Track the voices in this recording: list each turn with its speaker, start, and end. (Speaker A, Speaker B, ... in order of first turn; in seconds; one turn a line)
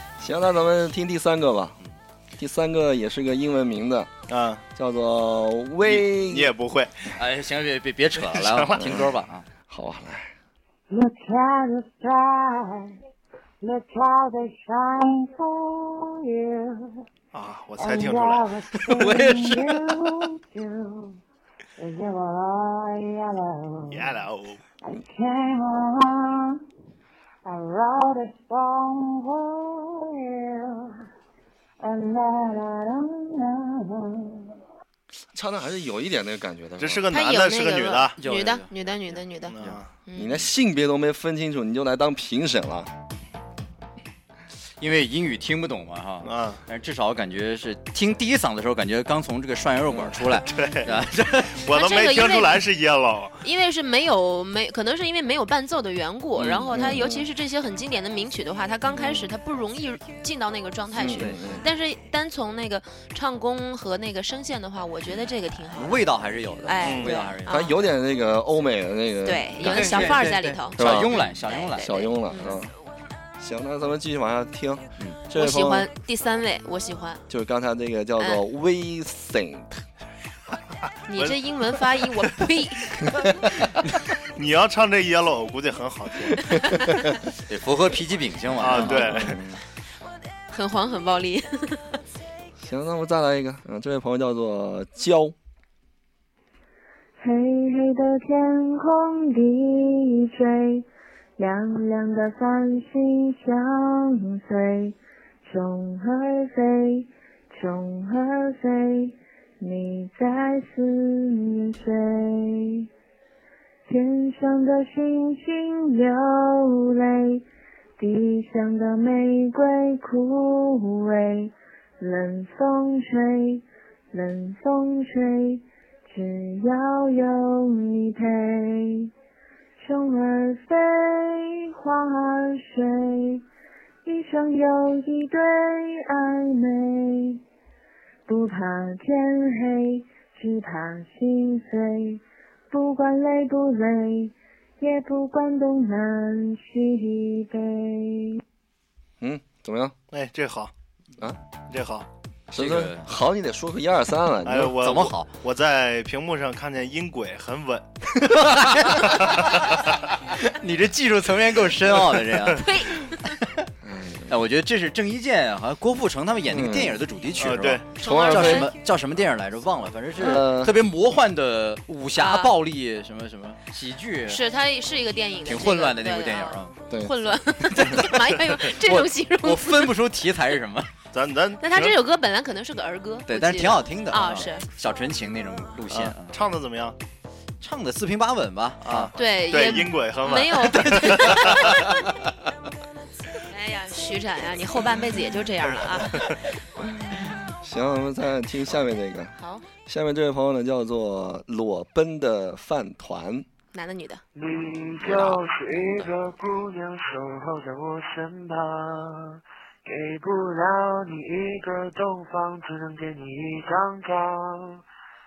Speaker A: 0.2-1.8
Speaker A: 2.4-4.1
Speaker B: 4.3-4.6
Speaker A: 4.8-6.5
Speaker B: 5.8-7.1
Speaker C: 7.2-9.5
Speaker B: 8.2-9.0
Speaker A: 8.8-9.1
Speaker A: 9.7-10.3
Speaker D: 10.9-12.8
Speaker D: 13.6-16.7
Speaker B: 17.3-18.5
Speaker D: 17.8-21.2
Speaker C: 18.9-19.6
Speaker E: 18.9-19.6
Speaker D: 21.8-24.1
Speaker B: 23.9-24.6
Speaker D: 24.9-26.5
Speaker D: 27.4-30.1
Speaker D: 31.8-34.1
Speaker A: 35.3-37.0
Speaker B: 36.8-38.2
Speaker F: 37.1-40.5
Speaker C: 38.2-39.8
Speaker B: 39.5-39.9
Speaker A: 40.1-42.9
Speaker C: 44.8-51.7
Speaker B: 46.2-46.6
Speaker A: 49.9-50.2
Speaker B: 50.5-50.9
Speaker B: 51.5-53.4
Speaker F: 51.8-52.6
Speaker F: 53.4-66.1
Speaker C: 56.4-57.2
Speaker A: 56.7-57.3
Speaker B: 59.0-59.3
Speaker A: 61.0-61.6
Speaker C: 61.2-61.6
Speaker C: 65.7-67.6
Speaker F: 66.6-67.8
Speaker B: 66.8-67.1
Speaker A: 67.5-70.2
Speaker F: 69.2-72.6
Speaker C: 69.6-72.0
Speaker A: 70.8-71.2
Speaker A: 71.8-72.7
Speaker A: 73.4-75.9
Speaker F: 75.3-77.2
Speaker A: 77.3-79.8
Speaker F: 78.2-78.4
Speaker F: 81.1-82.9
Speaker B: 84.3-86.5
Speaker C: 87.3-89.2
Speaker B: 88.6-89.3
Speaker A: 88.7-89.6
Speaker F: 90.5-92.0
Speaker A: 92.6-95.3
Speaker D: 97.2-100.9
Speaker D: 101.4-112.9
Speaker D: 113.9-117.4
Speaker D: 118.0-129.1
Speaker D: 129.8-133.4
Speaker D: 134.1-137.4
Speaker D: 138.3-148.4
Speaker A: 149.2-149.9
Speaker B: 150.1-150.7
Speaker B: 151.7-152.1
Speaker A: 152.5-154.8
Speaker C: 152.6-153.2
Speaker B: 154.5-157.9
Speaker C: 154.8-155.3
Speaker C: 158.3-162.7
Speaker F: 162.6-163.1
Speaker A: 163.8-164.3
Speaker C: 164.3-174.4
Speaker A: 166.5-167.0
Speaker B: 167.4-167.9
Speaker A: 168.0-168.7
Speaker F: 168.0-168.7
Speaker A: 170.2-170.8
Speaker F: 172.2-172.5
Speaker F: 174.3-179.8
Speaker C: 175.4-176.8
Speaker C: 177.8-178.1
Speaker C: 178.8-180.9
Speaker B: 181.1-181.9
Speaker F: 181.6-184.7
Speaker C: 183.3-186.3
Speaker B: 185.9-187.0
Speaker C: 187.6-189.1
Speaker B: 188.8-191.7
Speaker F: 189.1-191.7
Speaker C: 191.0-191.8
Speaker F: 193.5-196.4
Speaker B: 195.6-196.4
Speaker A: 197.2-199.3
Speaker F: 199.4-199.7
Speaker A: 199.9-203.5
Speaker F: 203.7-204.2
Speaker E: 204.4-214.8
Speaker A: 205.0-206.3